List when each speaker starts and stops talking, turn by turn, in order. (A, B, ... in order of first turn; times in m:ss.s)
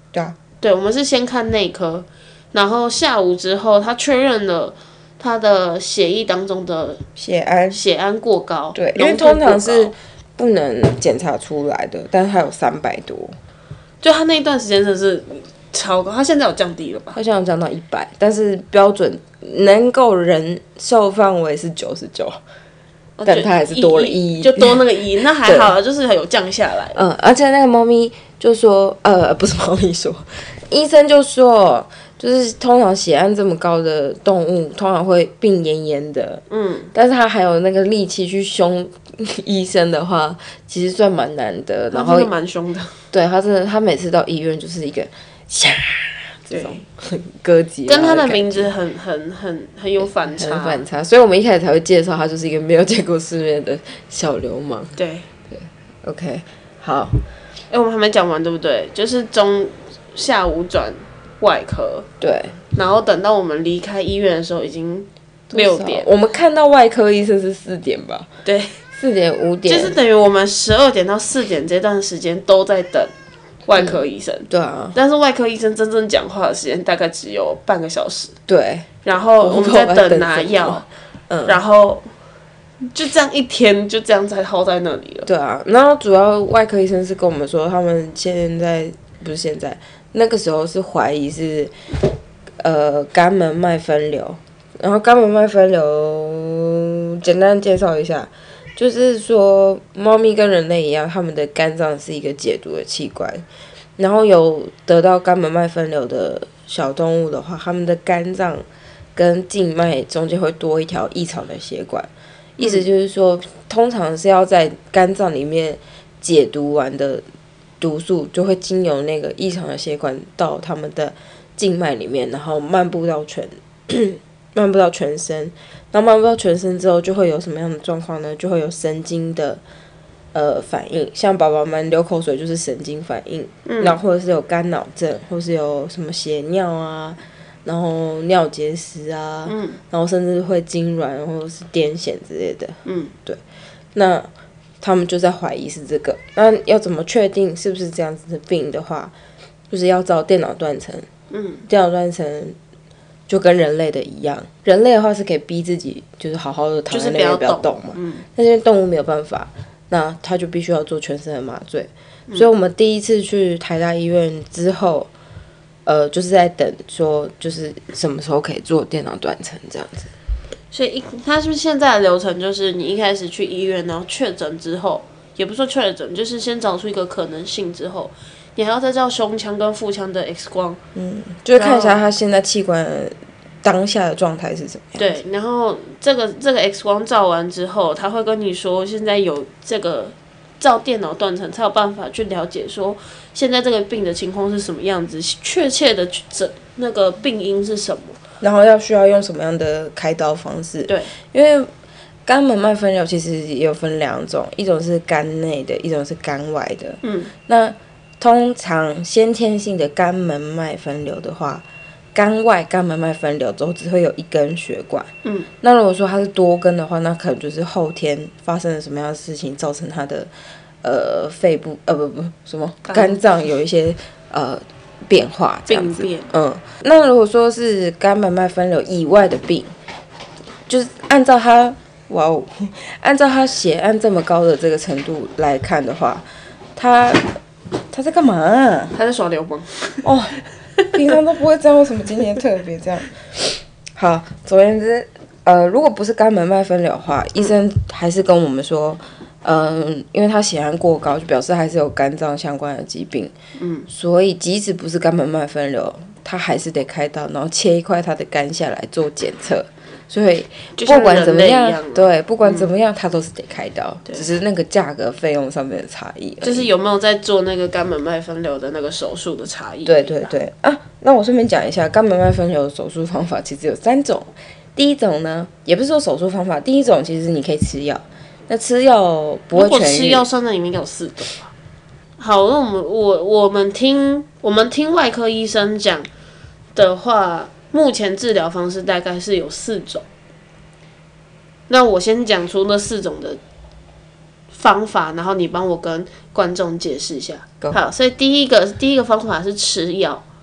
0:00.6-0:07.0 A
0:07.2-0:07.8 B
0:07.7-0:09.9 A
0:08.7-0:13.4 B
0:14.0-0:17.2 A
0:17.1-0:22.4 B
0:23.2-0:27.0 A
0:23.2-0:24.8 B
0:25.4-0:25.7 B
0:26.9-0:36.4 B
0:36.5-0:36.9 A
0:36.9-0:42.3 B
0:41.9-0:43.0 A
0:43.1-0:48.7 B
0:46.5-0:46.8 A
0:47.9-0:50.8 A
0:50.0-0:55.0 B
0:55.0-0:55.3 A
0:55.5-0:57.2 B
0:57.7-1:02.1 A
1:02.2-1:02.6 B
1:02.7-1:06.1 A
1:05.5-1:08.3 B
1:08.4-1:08.8 A
1:08.9-1:10.0 B
1:09.6-1:13.1 A
1:13.6-1:18.4 A
1:13.8-1:15.0 B
1:18.5-1:18.9 B
1:19.0-1:20.8 A
1:19.4-1:21.6 B
1:21.4-1:22.1 A
1:22.9-1:25.3 A
1:25.2-1:31.7 B
1:32.6-1:43.4 B
1:44.0-1:48.6 B
1:49.2-1:57.2 B
1:57.8-2:09.6 B
2:10.3-2:23.4 B
2:13.6-2:14.0 A
2:19.4-2:19.8 A
2:22.8-2:23.1 A
2:23.9-2:24.3 B
2:24.8-2:29.1 B
2:29.7-2:31.1 B
2:31.3-2:31.6 A
2:31.7-2:32.6 B
2:33.3-2:45.1 B
2:36.9-2:38.2 A
2:45.8-2:50.1 B
2:50.7-3:00.8 A
3:00.9-3:05.2 B
3:01.5-3:02.0 A
3:05.0-3:18.2 A
3:18.4-3:21.7 B
3:20.9-3:21.1 A
3:22.2-3:35.1 B
3:27.0-3:27.3 A
3:35.2-3:35.5 A
3:35.6-3:40.3 B
3:40.8-3:49.7 B
3:42.8-3:43.2 A
3:45.7-3:46.3 A
3:50.7-3:57.4 B
3:57.9-3:58.9 B
3:58.9-4:00.9 A
4:00.0-4:00.4 B
4:00.9-4:13.3 B
4:13.6-4:13.9 A
4:13.9-4:26.7 B
4:20.8-4:22.7 A
4:26.4-4:30.3 A
4:29.8-4:40.2 B
4:39.5-4:41.5 A
4:42.2-4:46.1 A
4:46.7-4:50.0 A
4:51.7-4:53.4 A
4:54.5-5:00.2 A